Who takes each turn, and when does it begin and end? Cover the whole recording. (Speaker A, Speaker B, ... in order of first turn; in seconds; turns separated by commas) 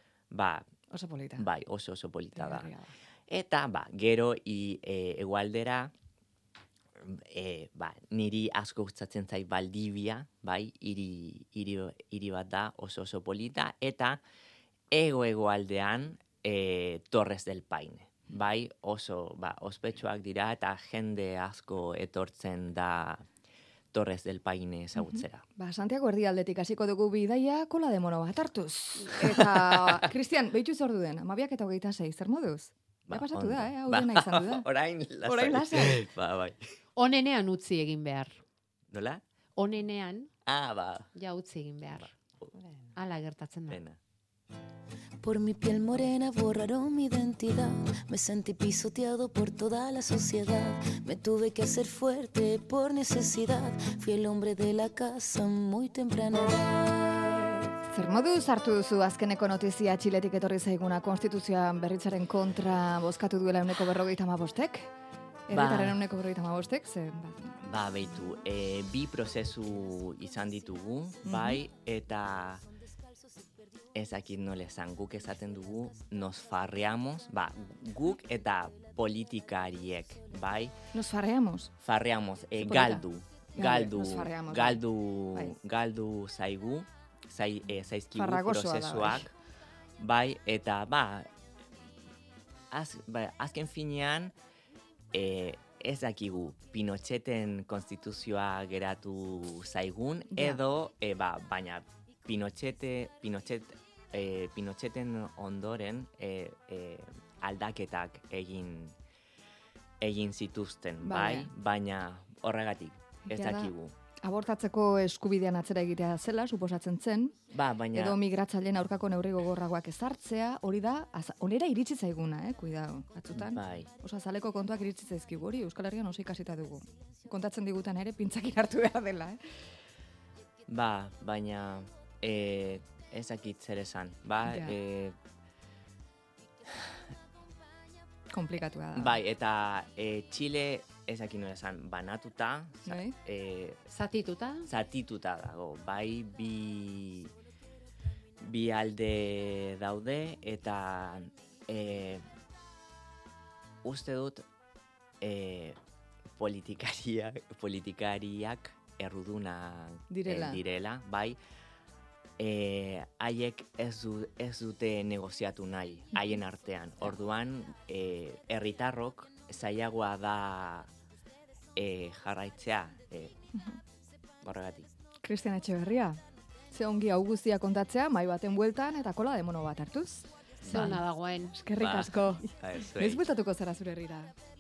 Speaker A: 0.3-0.7, Speaker B: 0.9-1.5, Speaker A: 1.4-2.7, Speaker B: 2.4-2.9, Speaker A: 3.3-5.9, Speaker A: 7.0-14.2, Speaker A: 14.9-23.3, Speaker A: 23.9-25.4, Speaker B: 25.0-34.7, Speaker A: 29.1-30.1, Speaker A: 33.1-36.6, Speaker B: 35.2-36.0, Speaker C: 37.0-38.4, Speaker A: 38.9-39.2, Speaker C: 39.6-40.3, Speaker A: 40.5-41.1, Speaker C: 41.1-42.1, Speaker A: 42.0-42.5, Speaker C: 43.0-43.8, Speaker A: 43.7-44.0, Speaker D: 45.2-57.7, Speaker B: 57.9-64.9, Speaker B: 65.5-67.7, Speaker A: 65.5-66.0, Speaker A: 67.6-72.6, Speaker B: 71.2-71.6, Speaker A: 73.9-80.8, Speaker B: 80.9-81.7, Speaker A: 81.8-89.3, Speaker C: 82.7-83.0, Speaker B: 83.6-85.6, Speaker B: 88.1-89.3, Speaker A: 90.0-91.3, Speaker A: 92.7-94.3, Speaker A: 95.1-109.0, Speaker B: 100.3-100.6, Speaker A: 110.0-114.0, Speaker B: 111.0-111.5, Speaker B: 113.3-113.7, Speaker B: 114.2-117.4, Speaker A: 117.5-118.2, Speaker B: 117.9-129.4, Speaker A: 123.3-123.9, Speaker A: 130.7-135.2, Speaker B: 134.5-134.8, Speaker B: 138.3-139.2, Speaker A: 138.9-143.9, Speaker B: 142.9-143.2, Speaker C: 143.9-144.7, Speaker A: 144.7-147.3, Speaker A: 148.4-152.3, Speaker A: 153.8-154.4, Speaker A: 155.2-155.8, Speaker A: 156.4-161.4, Speaker B: 160.1-160.6, Speaker A: 162.4-170.9, Speaker A: 171.8-173.3, Speaker B: 173.5-173.8, Speaker A: 174.4-174.9, Speaker B: 175.2-181.0, Speaker A: 180.6-181.0, Speaker C: 180.7-181.6, Speaker B: 181.5-184.3, Speaker A: 181.8-183.2